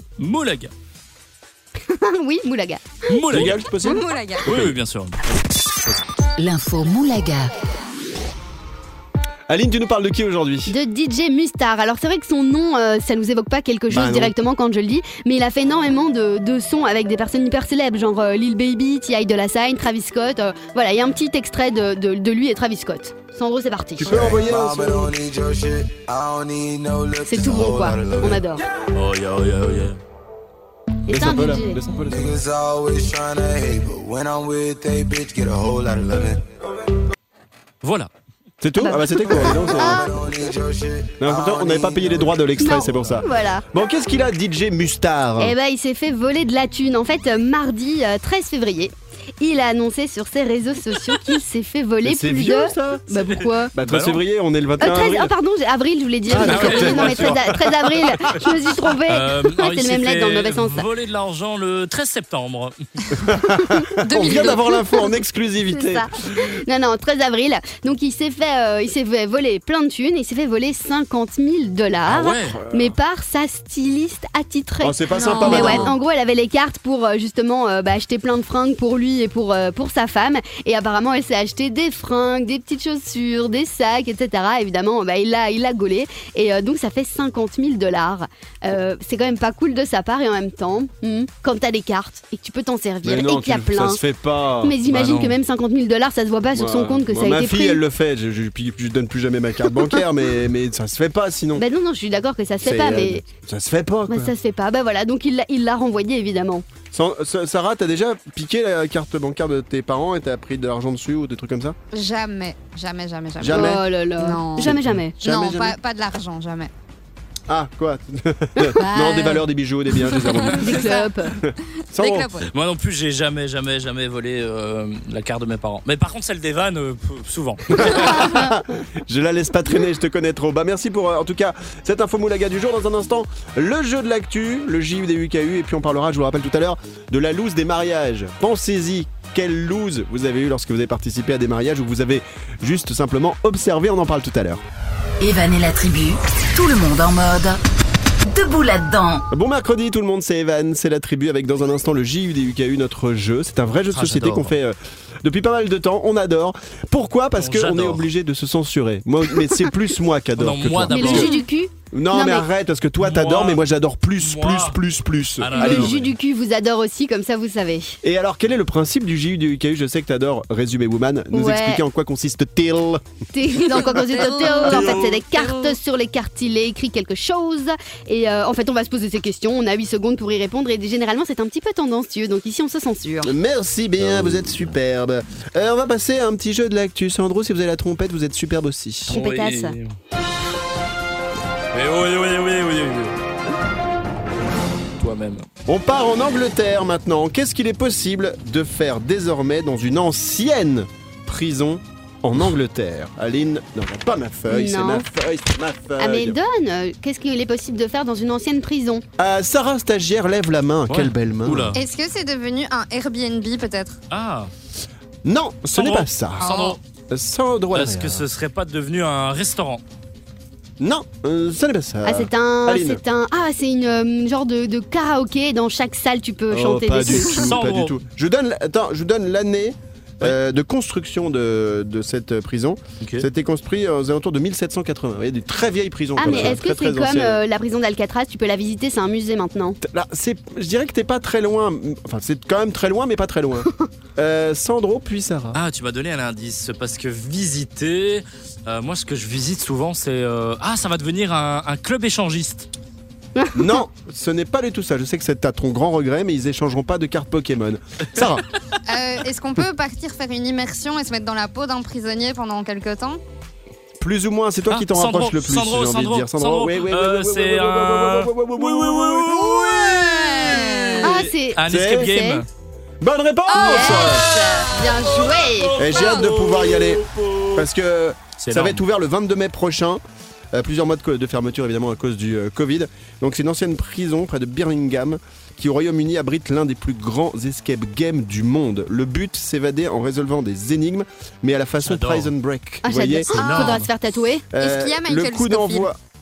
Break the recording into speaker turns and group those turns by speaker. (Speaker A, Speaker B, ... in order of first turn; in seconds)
Speaker A: 0.2-0.7, 3.1-3.6, 4.5-5.2, 28.9-30.0, 37.8-38.1, 42.8-43.2, 53.8-54.2, 56.4-58.4, 59.0-62.8, 72.1-72.6, 75.5-75.8, 94.9-95.4, 122.5-128.2, 153.9-154.6, 157.4-158.1, 160.4-161.3, 163.0-163.6, 164.2-164.8, 165.4-166.1, 184.0-184.6, 189.1-189.9, 191.7-193.2, 195.0-195.5, 210.9-211.8, 214.1-214.5, 215.7-216.8, 217.7-219.8, 227.3-228.0, 233.0-233.3, 236.3-236.5, 245.5-252.7, 264.7-272.5, 274.3-277.7, 278.4-278.8, 291.8-292.3, 293.3-293.9
Speaker B: 1.9-3.1, 10.7-24.3, 27.3-28.6, 31.1-31.8, 38.8-40.1, 42.6-43.6, 45.4-53.7, 54.8-60.9, 64.3-64.5, 65.7-94.0, 94.6-97.8, 101.6-103.2, 104.1-106.6, 113.5-115.2, 118.6-119.4, 120.5-121.4, 127.9-128.5, 160.9-162.5, 165.6-168.0, 171.3-171.8, 173.3-183.3, 189.1-189.8, 204.5-205.1, 206.0-209.0, 222.1-227.4, 236.2-239.8, 253.4-253.8, 271.0-272.4, 273.5-275.8, 292.8-294.4
Speaker C: 3.3-4.8, 9.5-10.8, 13.9-14.3, 24.0-25.1, 31.1-32.3, 38.6-40.1, 41.2-45.5, 52.0-55.3, 56.3-58.5, 63.2-66.5, 72.5-73.0, 74.8-76.0, 93.0-94.8, 96.5-101.7, 102.6-104.3, 106.9-111.8, 113.4-113.8, 114.6-115.8, 117.5-120.8, 121.4-122.3, 127.7-144.6, 149.3-161.4, 161.9-166.0, 168.0-173.0, 173.7-175.1, 183.2-189.2, 195.7-206.4, 209.2-211.8, 215.2-216.5, 217.1-218.2, 220.8-223.0, 226.5-237.4, 239.8-245.6, 253.5-258.4, 264.0-270.6, 271.7-272.1, 273.0-274.3, 275.8-280.0, 280.5-293.4, 294.5-296.0
Speaker D: 3.8-4.5, 64.0-64.8, 75.2-75.9, 111.9-116.7, 120.1-121.1, 121.9-122.5, 173.7-175.7, 211.8-214.0, 216.4-216.8, 258.9-263.2, 270.1-271.1, 273.5-274.7, 293.4-293.8, 294.6-295.9
Speaker E: 6.4-7.5, 145.2-147.6, 148.2-149.3
Speaker F: 24.0-28.4, 32.1-36.4, 39.3-42.5